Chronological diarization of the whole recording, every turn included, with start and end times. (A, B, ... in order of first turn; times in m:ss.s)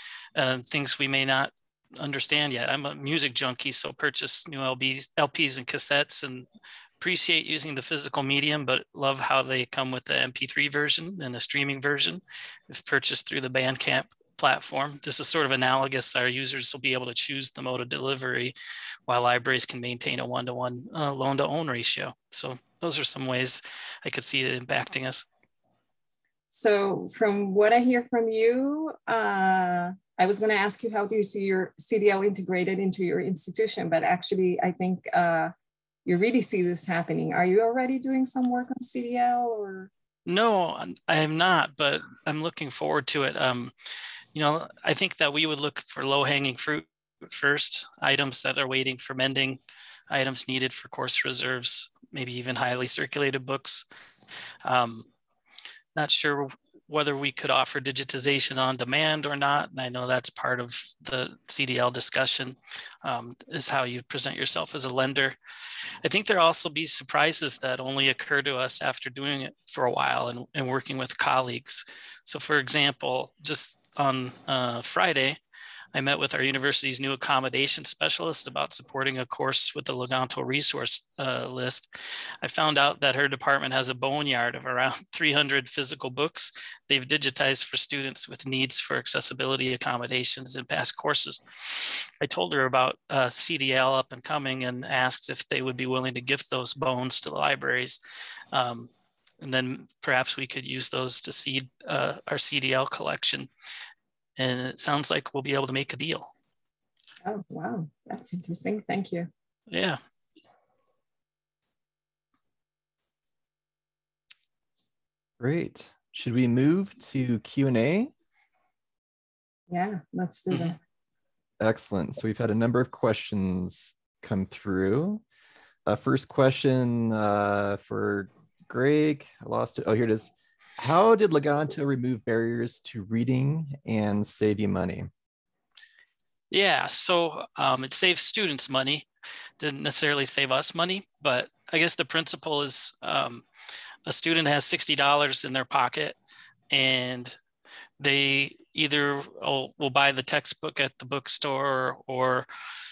0:00.4-0:06.5 A
0:07.0-0:18.6 A
0:19.1-0:25.2 A
0:26.5-0:35.5 B
0:36.0-0:39.9 B
0:40.3-0:43.7 A
0:44.3-0:53.8 A
0:54.6-0:55.1 A
0:56.0-1:05.4 A
1:06.0-1:15.4 A
1:15.9-1:21.9 A
1:22.4-1:38.0 A
1:38.5-1:43.5 A
1:44.4-1:46.3 A
1:47.2-1:49.3 B
1:49.7-1:50.0 A
1:55.4-1:58.1 C
1:59.7-2:00.8 B
2:01.6-2:05.2 C
2:05.9-2:15.1 C
2:16.5-2:19.1 A
2:19.6-2:23.4 A
2:24.1-2:26.2 A
2:26.7-2:27.4 A
2:28.0-2:32.5 A